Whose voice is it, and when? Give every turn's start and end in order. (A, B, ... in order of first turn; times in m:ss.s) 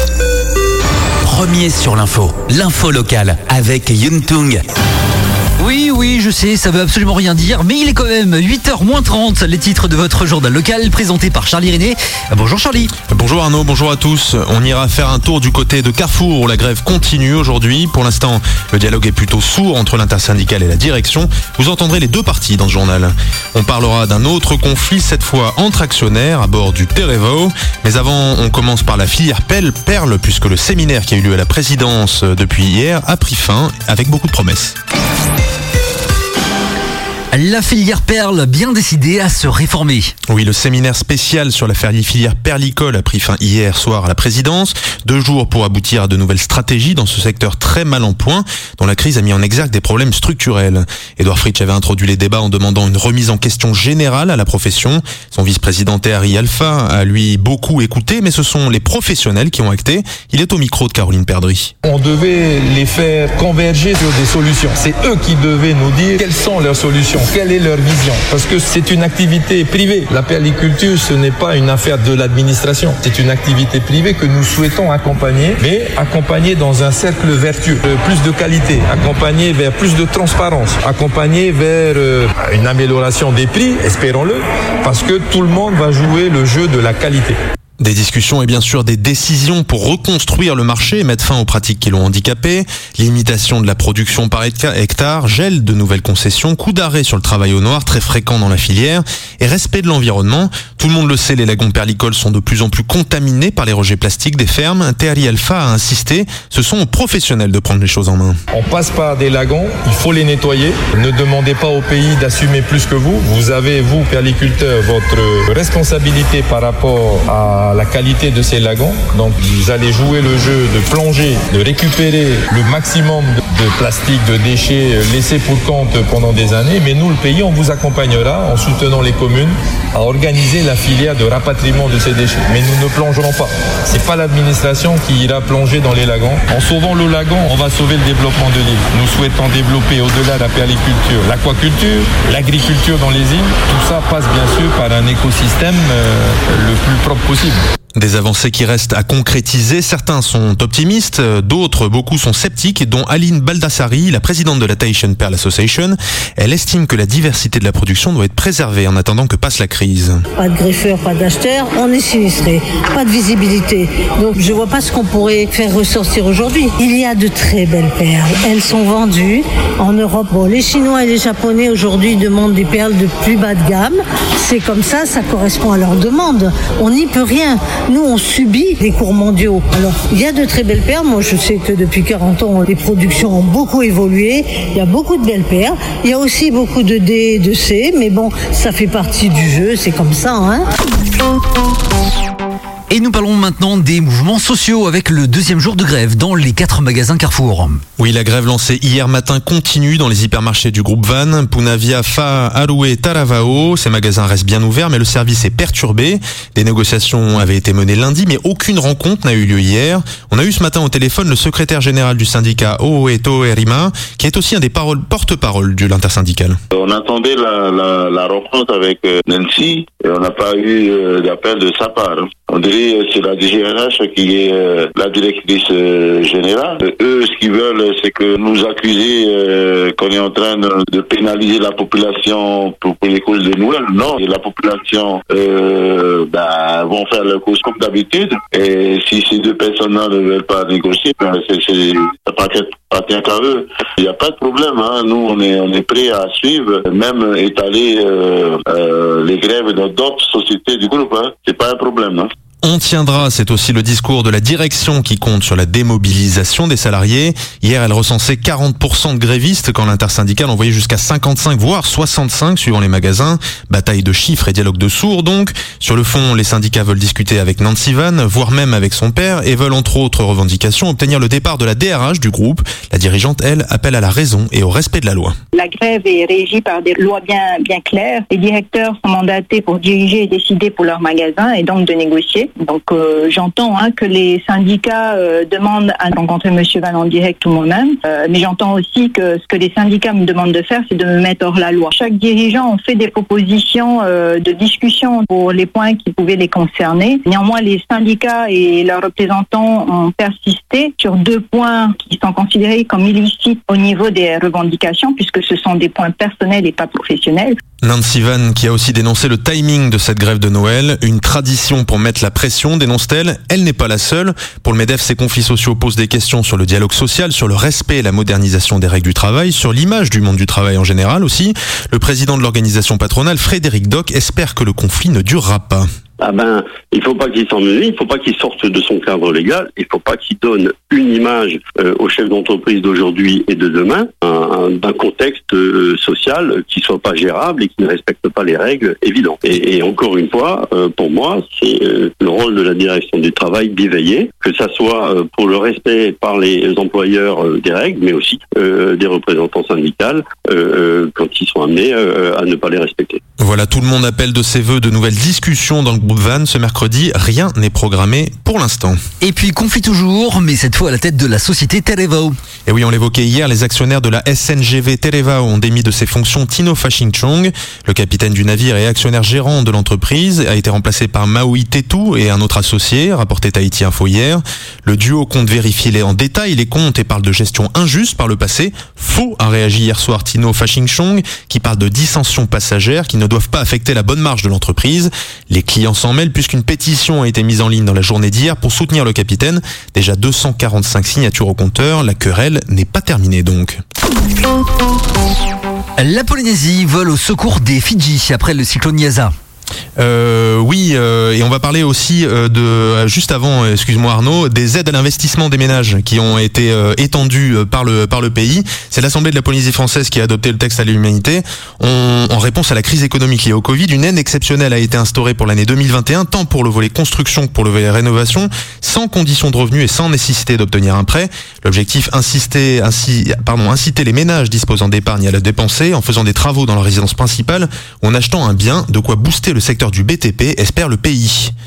0:01.3-0:04.6 A
0:05.6-0:12.9 B
0:13.1-0:34.8 C
0:37.3-0:40.1 B
0:40.3-1:01.7 C
1:01.8-1:27.4 D
1:27.8-1:48.4 C
1:48.5-2:27.6 D
2:28.0-2:40.2 C
2:40.4-3:10.7 E
3:12.9-3:17.8 B
3:18.0-3:36.6 C
3:36.7-4:12.3 F
4:12.6-4:35.4 C
4:35.5-5:07.6 G
5:07.8-5:25.9 C
5:26.2-5:53.2 H
5:53.4-5:59.0 C
5:59.2-6:02.3 B
6:02.6-6:33.8 C
6:36.0-6:39.3 B
6:40.0-7:11.5 C